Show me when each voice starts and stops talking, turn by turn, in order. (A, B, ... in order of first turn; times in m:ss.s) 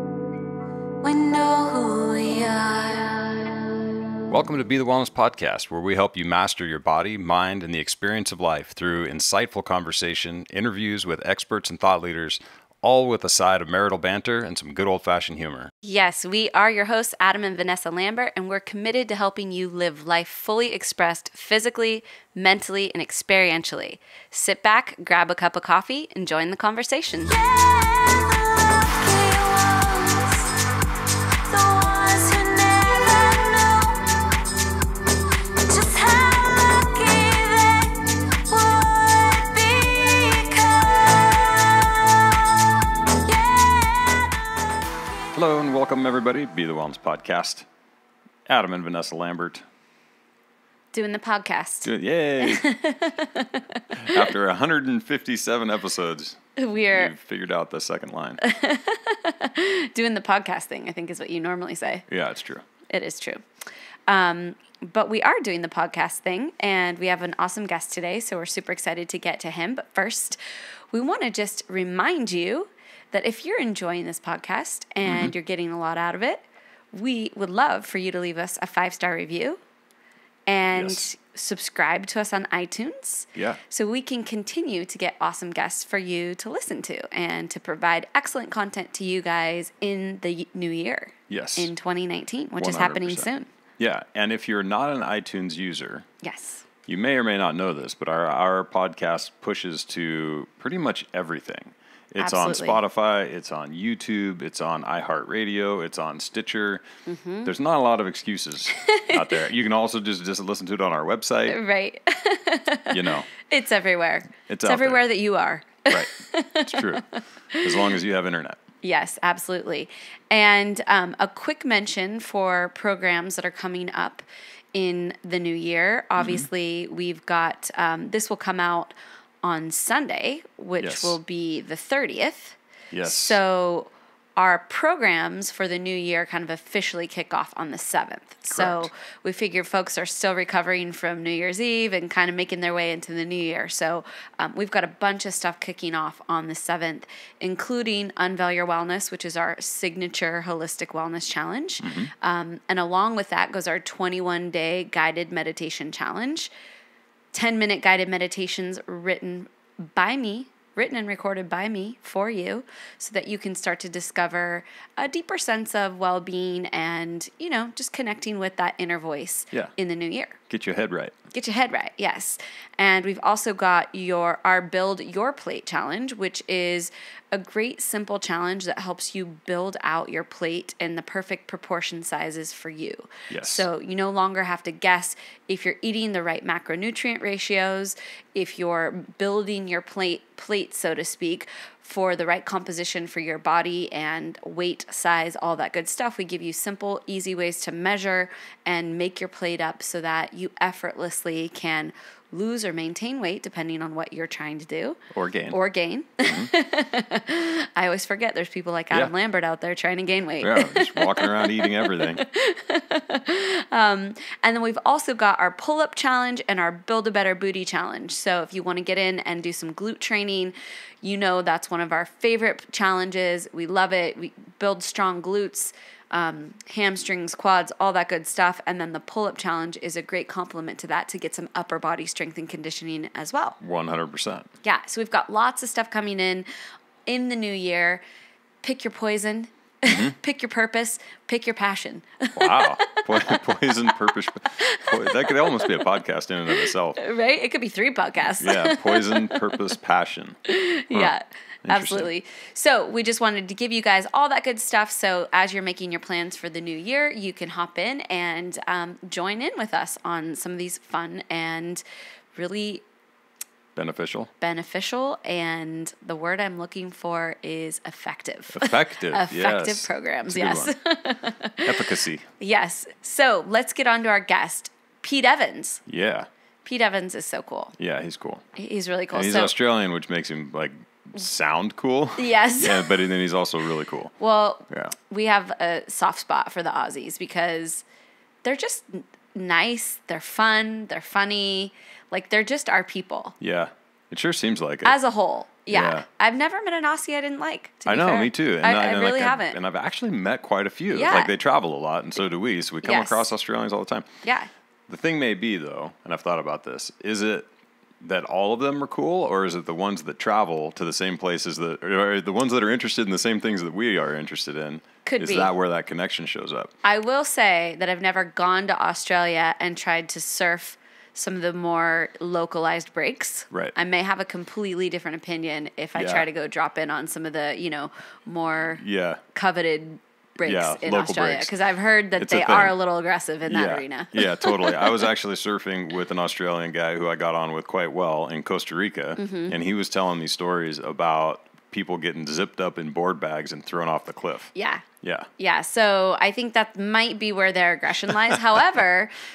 0:01.0-0:03.4 A
0:04.3-0:15.7 B
0:15.8-0:27.3 C
0:27.2-0:30.5 A
0:31.4-0:34.0 A
0:35.6-0:42.6 A
0:43.2-0:44.4 A
0:45.3-0:47.6 B
0:48.4-0:49.6 B
0:50.9-0:54.3 C
0:51.8-0:52.6 B
0:54.0-0:58.4 B
0:56.6-0:57.1 C
0:58.4-1:02.0 C
1:02.1-1:02.6 B
1:02.9-1:03.4 C
1:04.1-1:10.4 C
1:10.9-1:19.6 C
1:15.0-1:15.3 B
1:20.5-1:33.5 C
1:20.7-1:21.0 B
1:23.3-1:23.6 B
1:31.3-1:31.7 B
1:32.6-1:36.0 B
1:36.2-1:36.6 C
1:36.9-1:46.8 B
1:42.2-1:42.8 C
1:47.0-1:47.5 C
1:47.4-1:51.6 B
1:48.7-1:49.3 C
1:51.5-1:57.9 C
1:52.9-1:53.3 B
1:54.5-1:55.0 B
1:55.9-1:56.2 B
1:56.7-1:57.0 B
1:57.6-1:58.6 B
1:58.8-2:36.5 C
2:06.2-2:06.5 B
2:10.8-2:11.2 B
2:12.9-2:13.4 B
2:18.5-2:18.9 B
2:31.8-2:32.1 B
2:37.3-2:50.4 C
2:50.5-2:51.1 B
2:51.3-3:25.0 C
3:03.3-3:03.6 B
3:25.1-3:25.6 B
3:25.5-3:53.6 C
3:26.2-3:26.5 B
3:30.4-3:32.2 B
3:53.6-3:54.5 B
3:54.6-3:56.5 C
3:57.1-3:58.0 C
3:58.6-4:03.4 C
3:59.9-4:00.2 B
4:02.4-4:07.0 B
4:04.6-4:05.8 C
4:06.5-4:09.6 C
4:08.4-4:10.4 B
4:10.5-4:21.8 C
4:10.9-4:12.1 B
4:22.3-4:22.8 C
4:23.8-4:24.3 B
4:24.4-4:35.8 C
4:28.5-4:30.7 B
4:31.6-4:32.3 B
4:35.9-4:36.3 B
4:36.6-4:37.7 C
4:37.8-4:38.4 B
4:38.6-4:39.5 C
4:39.1-4:44.1 B
4:42.2-4:42.9 C
4:44.2-4:47.8 C
4:48.4-4:53.3 C
4:53.4-4:55.0 B
4:54.8-4:59.6 C
4:55.7-4:56.0 B
4:57.9-5:04.1 B
5:00.9-5:01.3 C
5:02.8-5:03.2 C
5:04.2-5:04.5 C
5:04.9-5:07.5 B
5:08.0-5:16.7 B
5:15.0-5:15.5 C
5:16.8-5:35.0 C
5:26.0-5:26.3 B
5:28.8-5:29.2 B
5:30.4-5:31.5 B
5:32.2-5:32.7 B
5:33.4-5:44.5 B
5:39.2-5:39.5 C
5:44.5-5:44.8 C
5:45.0-5:45.3 B
5:45.4-5:49.1 C